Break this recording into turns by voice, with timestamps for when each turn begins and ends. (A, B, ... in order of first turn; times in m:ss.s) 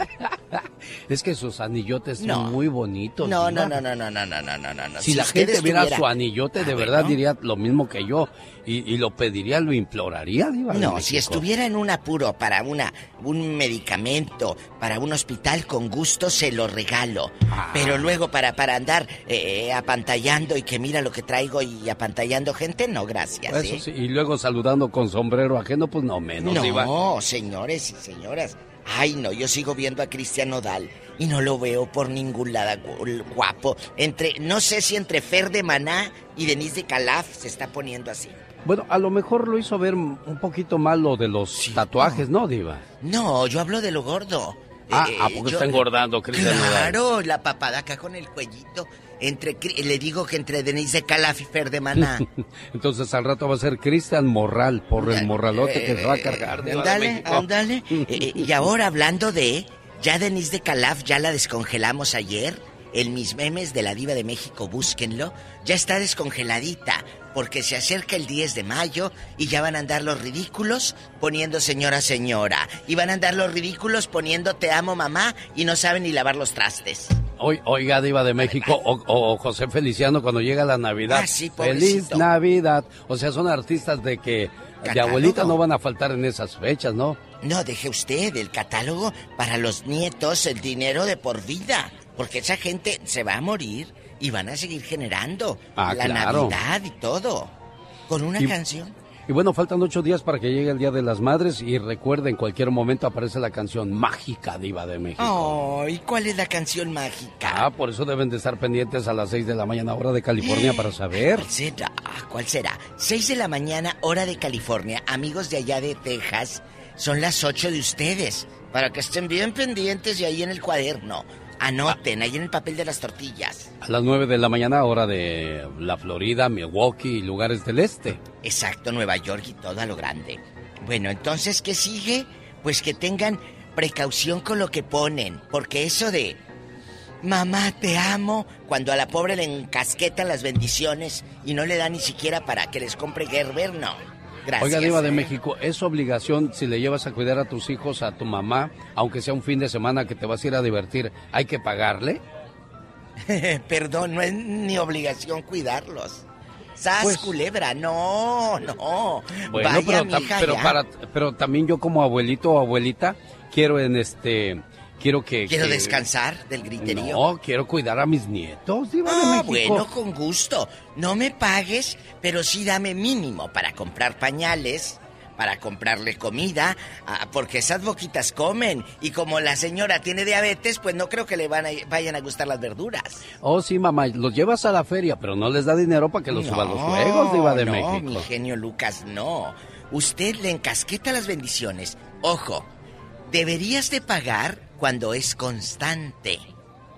0:00.2-0:03.8 A
0:02.2-0:02.6 B
0:03.2-0:07.2 B
0:05.0-0:11.4 A
0:10.7-0:23.8 B
0:17.5-0:18.1 A
0:23.5-0:26.9 A
0:26.4-0:38.4 B
0:38.7-0:42.8 A
0:41.6-0:42.3 B
0:43.0-0:52.2 B
0:44.9-0:47.0 A
0:52.0-0:58.7 A
0:55.0-1:17.2 B
1:17.4-1:27.2 A
1:18.4-1:18.8 B
1:21.0-1:22.3 B
1:24.8-1:25.6 B
1:27.4-1:37.5 B
1:35.8-1:36.6 A
1:38.1-1:38.9 B
1:39.3-1:45.6 A
1:45.2-1:47.7 B
1:47.4-1:51.5 A
1:50.4-2:03.7 B
2:03.8-2:08.2 A
2:08.4-2:16.4 B
2:17.2-2:25.3 B
2:24.6-2:32.2 A
2:33.2-2:36.2 B
2:36.8-2:40.8 B
2:37.0-2:37.3 A
2:39.5-2:46.0 A
2:45.5-2:47.2 B
2:46.8-2:49.8 A
2:49.0-3:03.2 B
3:03.4-3:08.3 A
3:06.3-3:12.7 B
3:13.3-3:16.5 B